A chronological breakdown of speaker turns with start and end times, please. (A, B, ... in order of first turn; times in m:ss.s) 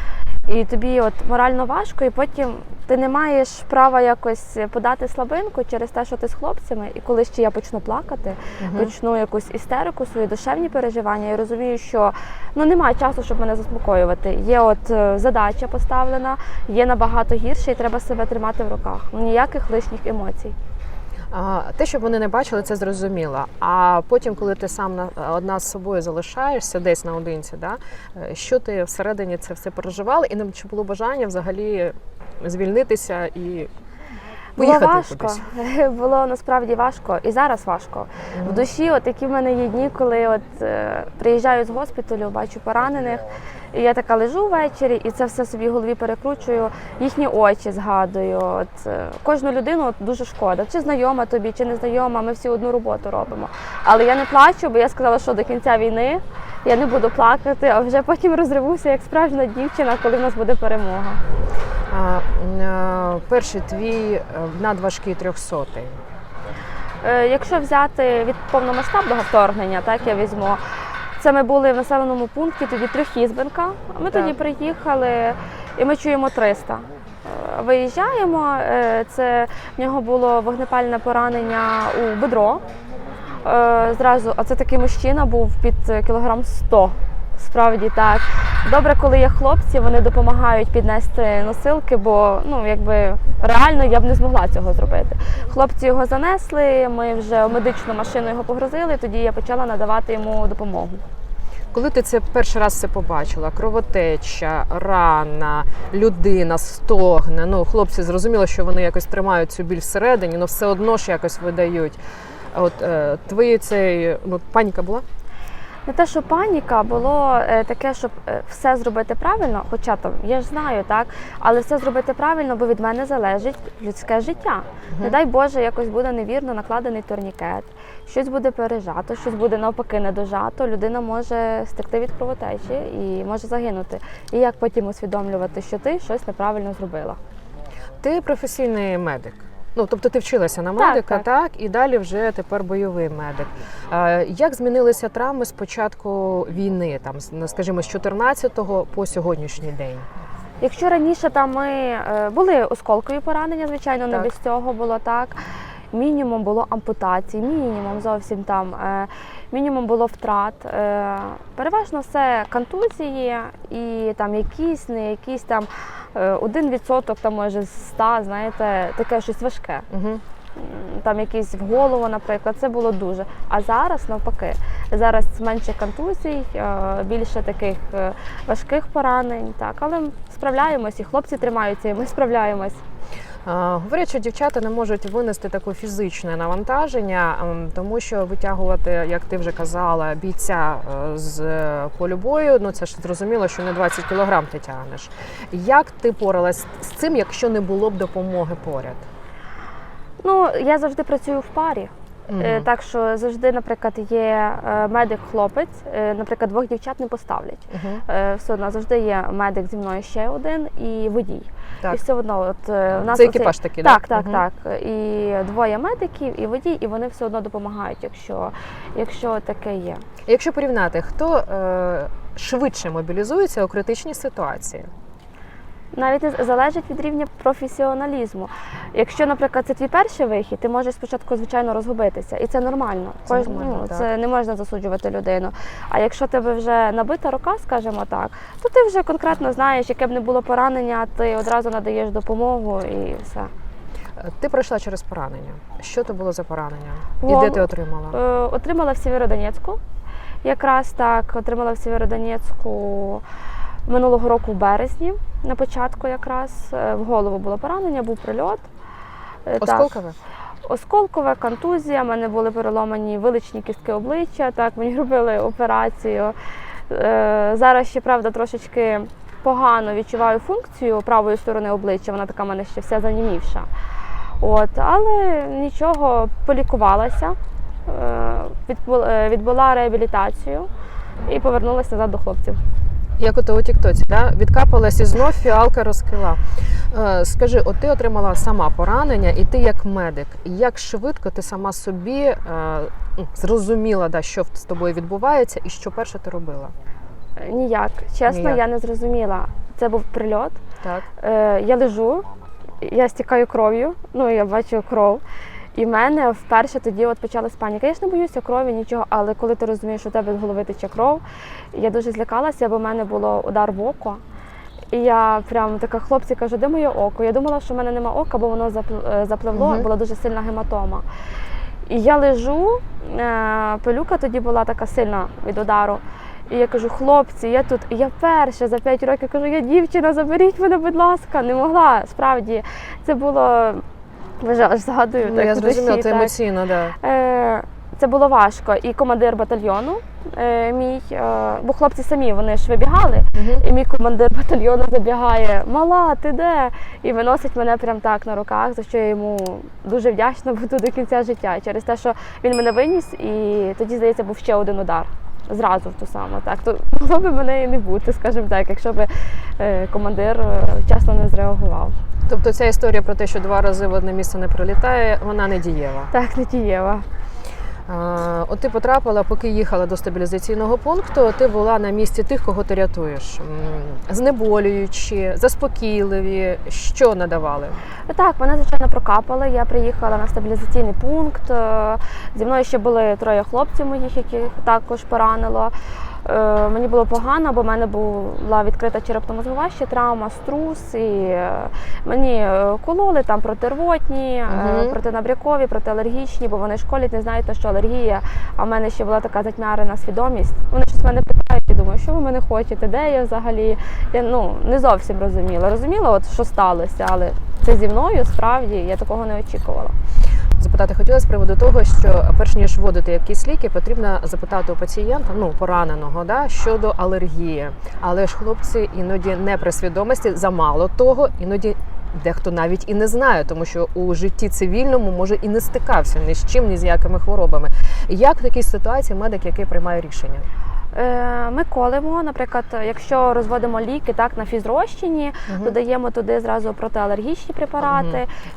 0:00.5-0:20.6 A
0:08.6-0:08.9 B
0:21.3-0:33.7 B
0:34.6-1:01.2 A
0:34.6-0:35.4 B
0:38.3-0:38.7 B
1:01.9-1:06.0 B
1:07.0-1:10.6 A
1:11.2-1:22.6 A
1:23.4-1:41.0 A
1:41.7-1:52.0 B
1:52.5-1:55.0 B
1:55.9-2:17.2 A
2:18.0-2:30.1 B
2:20.8-2:21.3 A
2:30.6-2:35.4 A
2:35.9-2:49.9 A
2:49.9-2:50.2 B
2:50.6-3:02.8 A
3:03.4-3:19.1 B
3:20.2-3:40.0 A
3:22.3-3:22.7 B
3:27.7-3:28.0 B
3:33.1-3:34.4 B
3:40.3-3:44.9 B
3:45.9-4:03.5 A
3:53.3-3:54.1 B
4:04.2-4:08.2 B
4:07.2-4:09.8 A
4:10.4-4:13.2 A
4:13.9-4:18.7 A
4:19.5-4:20.0 A
4:19.6-4:20.2 B
4:20.6-4:26.4 A
4:26.9-4:33.7 A
4:34.4-4:37.4 A
4:37.9-4:40.7 A
4:41.3-4:42.6 A
4:43.2-4:56.7 B
4:57.4-5:00.6 A
4:58.3-4:58.6 B
5:01.2-5:02.3 A
5:02.8-5:05.2 A
5:05.8-5:14.2 A
5:14.9-5:21.1 A
5:19.5-5:19.9 B
5:21.9-5:33.8 A
5:34.4-5:36.3 A
5:35.2-5:37.0 B
5:37.0-6:02.0 A
5:43.3-5:43.6 B
6:02.3-6:06.1 B
6:06.1-6:07.1 A
6:07.9-6:17.8 B
6:18.1-6:50.0 A
6:34.5-6:35.0 B
6:50.6-7:10.5 B
7:10.9-7:18.3 A
7:15.5-7:15.8 B
7:17.8-7:18.2 B